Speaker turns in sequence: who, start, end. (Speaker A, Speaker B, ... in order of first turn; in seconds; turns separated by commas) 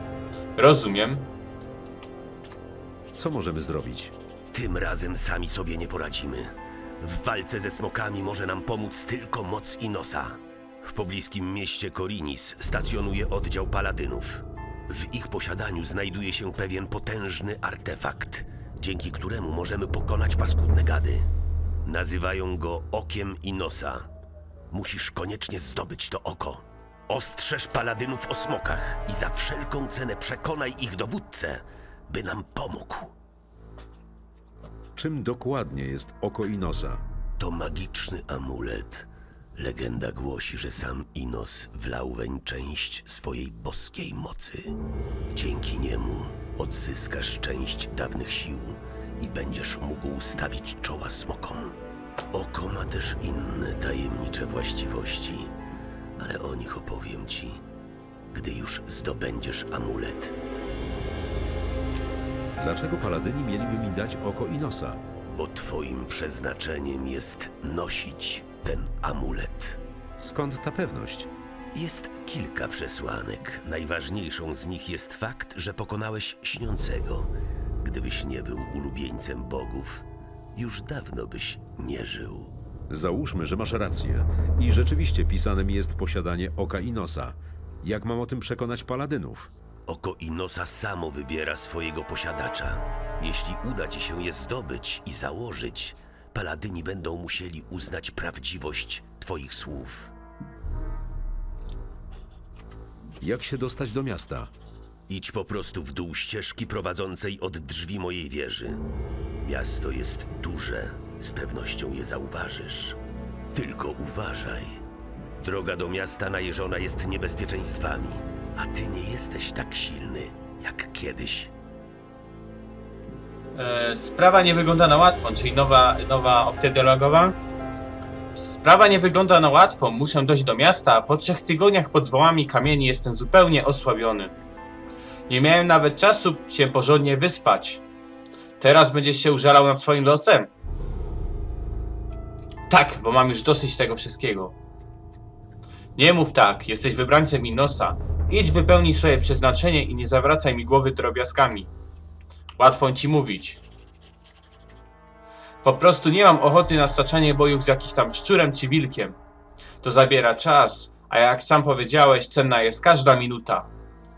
Speaker A: 0.6-1.3, Speaker B: 3.1-4.1, Speaker C: 4.5-21.3, Speaker C: 21.8-24.1, Speaker C: 24.7-33.1, Speaker B: 35.0-37.0, Speaker C: 37.4-44.7, Speaker C: 45.3-51.8, Speaker C: 52.3-55.5, Speaker C: 56.2-57.6, Speaker C: 58.3-60.4, Speaker B: 62.5-65.0, Speaker C: 65.3-69.8, Speaker B: 70.2-71.3, Speaker C: 71.7-82.5, Speaker B: 82.9-89.5, Speaker C: 89.9-100.1, Speaker B: 103.2-104.5, Speaker C: 105.1-108.8, Speaker C: 109.4-113.0, Speaker C: 113.5-114.8, Speaker C: 115.4-121.5, Speaker A: 123.5-127.4, Speaker A: 128.3-134.3, Speaker A: 135.3-137.8, Speaker A: 138.6-140.5, Speaker A: 142.7-144.5, Speaker A: 145.9-151.7, Speaker A: 152.6-153.6, Speaker A: 155.6-159.2, Speaker A: 159.8-163.7